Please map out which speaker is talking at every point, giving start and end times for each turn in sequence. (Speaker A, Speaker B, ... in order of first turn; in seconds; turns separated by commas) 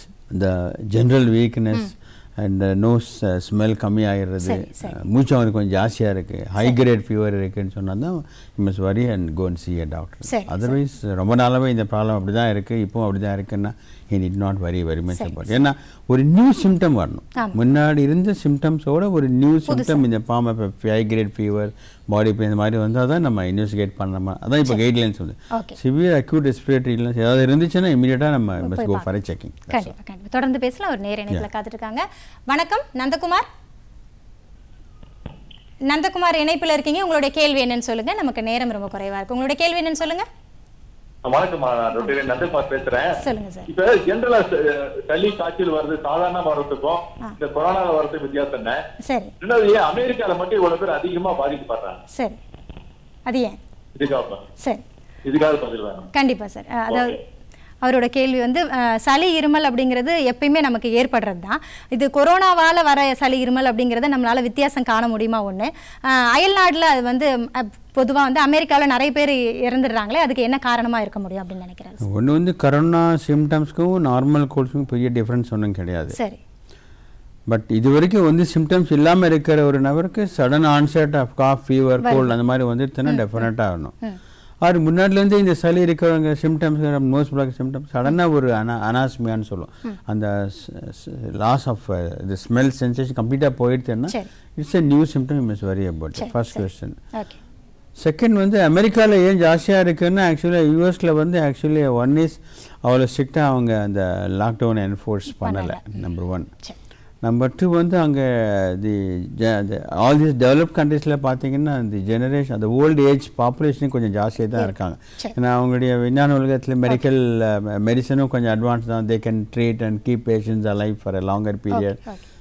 Speaker A: 0.3-29.9, Speaker B: 4.4-5.0, Speaker B: 10.3-10.7, Speaker B: 15.1-15.7, Speaker B: 19.7-20.0, Speaker B: 25.5-25.8, Speaker B: 28.6-29.1, Speaker B: 29.7-33.5, Speaker B: 35.9-40.2, Speaker C: 41.2-43.2, Speaker B: 43.2-43.7, Speaker C: 43.7-48.8, Speaker B: 49.0-49.3, Speaker C: 49.4-52.0, Speaker B: 52.1-52.4, Speaker B: 53.3-53.5, Speaker C: 53.9-54.4, Speaker C: 55.2-56.1, Speaker B: 56.1-57.2, Speaker C: 56.9-57.2, Speaker B: 57.8-72.0, Speaker A: 72.0-76.2, Speaker B: 76.1-76.4, Speaker A: 77.5-83.9, Speaker B: 82.0-82.3, Speaker B: 83.1-83.5, Speaker A: 84.6-97.0, Speaker B: 96.2-97.4, Speaker A: 98.0-106.5, Speaker B: 105.3-106.0, Speaker A: 107.2-122.0, Speaker B: 114.6-115.4, Speaker B: 121.7-122.2